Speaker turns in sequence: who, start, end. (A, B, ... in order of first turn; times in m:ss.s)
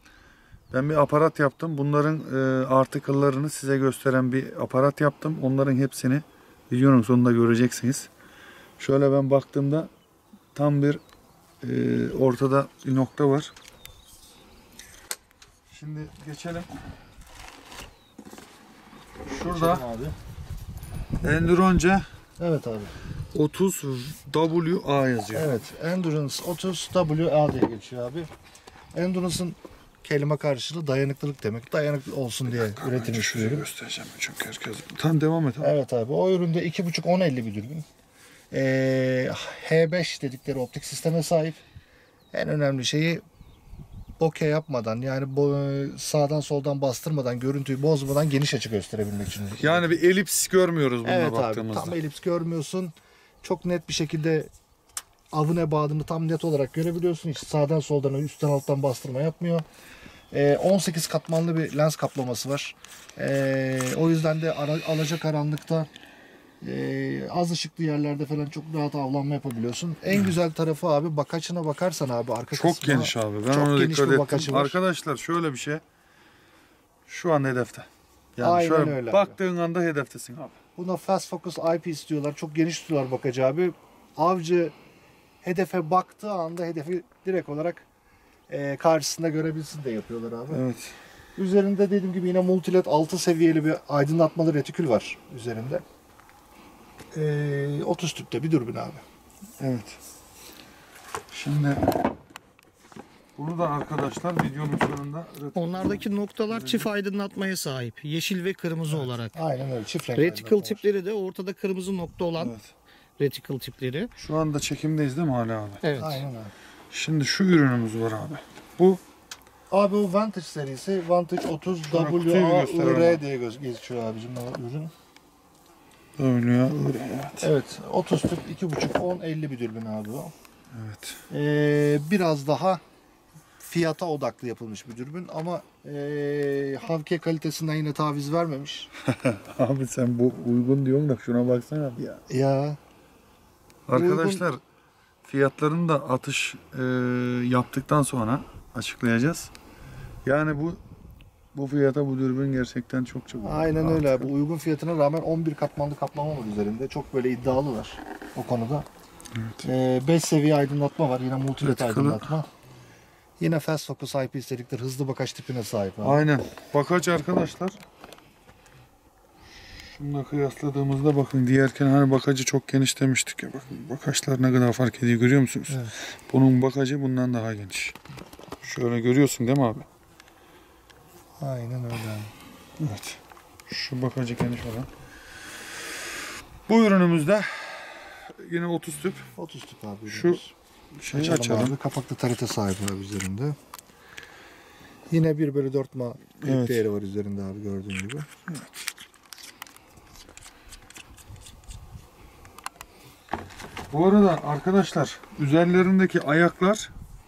0:00.7-0:08.1 A
0:08.8-0:09.9 A
0:10.6-0:11.0 A
0:11.6-0:13.5 A
0:15.7-0:16.7 A
0:19.3-0:19.8 A
0:19.3-0:20.2 B
0:21.2-0:22.1 A
0:22.4-0:22.9 B
0:23.3-0:25.5 A
0:25.3-0:28.3 B
0:28.9-0:33.6 B
0:32.5-0:35.7 A
0:35.6-0:37.8 B
0:38.5-0:41.6 B
0:42.3-0:43.2 B
0:44.2-0:49.9 B
0:49.6-0:52.0 A
0:51.0-0:54.5 B
0:55.3-0:59.6 B
1:00.3-1:05.9 B
1:06.6-1:14.8 B
1:12.5-1:15.8 A
1:17.1-1:20.6 A
1:18.4-1:19.4 B
1:20.8-1:24.8 B
1:25.4-1:27.8 B
1:28.5-1:30.6 B
1:30.5-1:30.9 A
1:31.4-1:35.8 B
1:37.1-1:39.0 B
1:39.6-1:40.0 A
1:41.3-1:42.0 A
1:43.4-1:46.9 A
1:45.6-1:49.4 C
1:49.3-1:50.8 B
1:50.2-1:52.5 C
1:52.4-1:52.7 A
1:53.2-1:54.1 C
1:54.2-1:55.8 A
1:55.8-1:56.2 C
1:56.0-1:56.5 B
1:56.9-1:59.0 A
1:59.7-2:04.9 B
2:01.8-2:03.2 A
2:06.2-2:07.5 A
2:07.4-2:10.3 B
2:10.7-2:11.2 A
2:11.3-2:12.8 B
2:13.6-2:18.9 B
2:19.0-2:22.2 A
2:22.3-2:22.8 B
2:23.9-2:24.6 A
2:23.9-2:24.5 B
2:25.2-2:29.5 A
2:30.2-2:30.8 A
2:31.5-2:34.3 A
2:33.4-2:38.8 B
2:39.3-2:39.7 A
2:39.6-2:42.5 B
2:41.6-2:42.3 A
2:43.4-2:46.2 B
2:46.0-2:47.8 A
2:49.8-2:58.0 A
2:55.7-2:55.9 B
2:58.6-2:59.9 A
3:01.4-3:02.3 B
3:02.8-3:04.9 A
3:06.7-3:09.3 A
3:09.3-3:10.5 B
3:10.1-3:10.4 A
3:11.0-3:11.8 A
3:11.1-3:13.6 B
3:15.1-3:18.3 B
3:16.4-3:16.8 A
3:23.9-3:26.9 A